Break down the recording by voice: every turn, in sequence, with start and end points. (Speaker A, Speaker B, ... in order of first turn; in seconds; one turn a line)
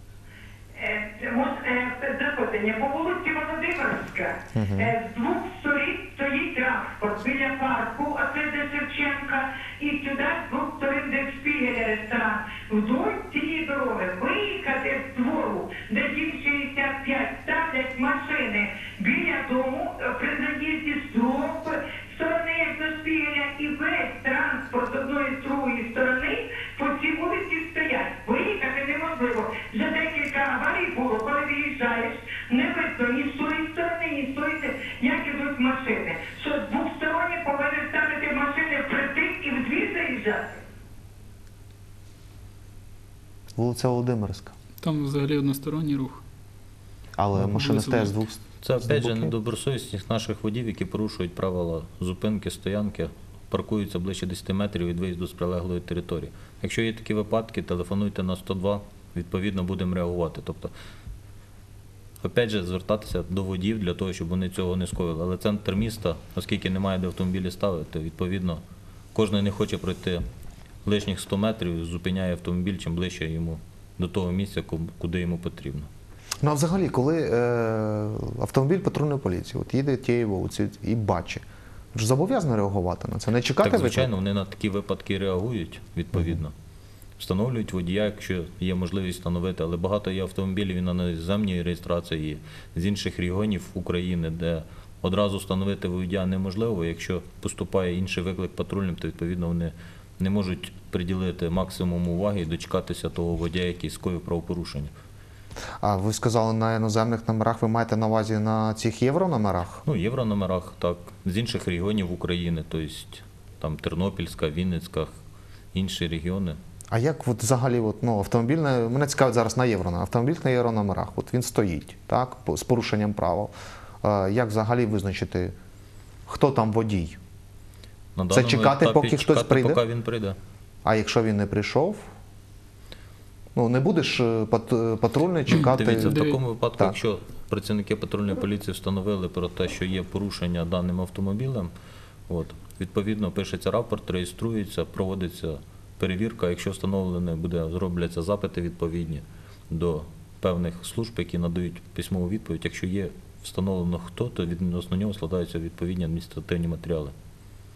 Speaker A: 0.8-40.6
Speaker B: 4.5-4.9
Speaker B: 43.5-44.5
Speaker C: 44.8-46.2
Speaker B: 47.2-49.3
Speaker C: 47.5-48.1
Speaker D: 48.6-60.7
Speaker D: 62.2-68.6
Speaker D: 69.1-70.2
Speaker D: 70.8-75.9
Speaker B: 76.4-84.1
Speaker D: 83.6-86.5
Speaker D: 87.2-104.9
Speaker B: 105.8-109.8
Speaker D: 109.8-115.1
Speaker D: 115.7-116.6
Speaker B: 116.9-125.5
Speaker B: 126.3-127.2
Speaker D: 128.2-130.4
Speaker B: 128.3-129.8
Speaker B: 130.8-132.0
Speaker B: 133.6-136.2
Speaker D: 135.5-141.7
Speaker C: 136.0-136.4
Speaker D: 142.3-157.1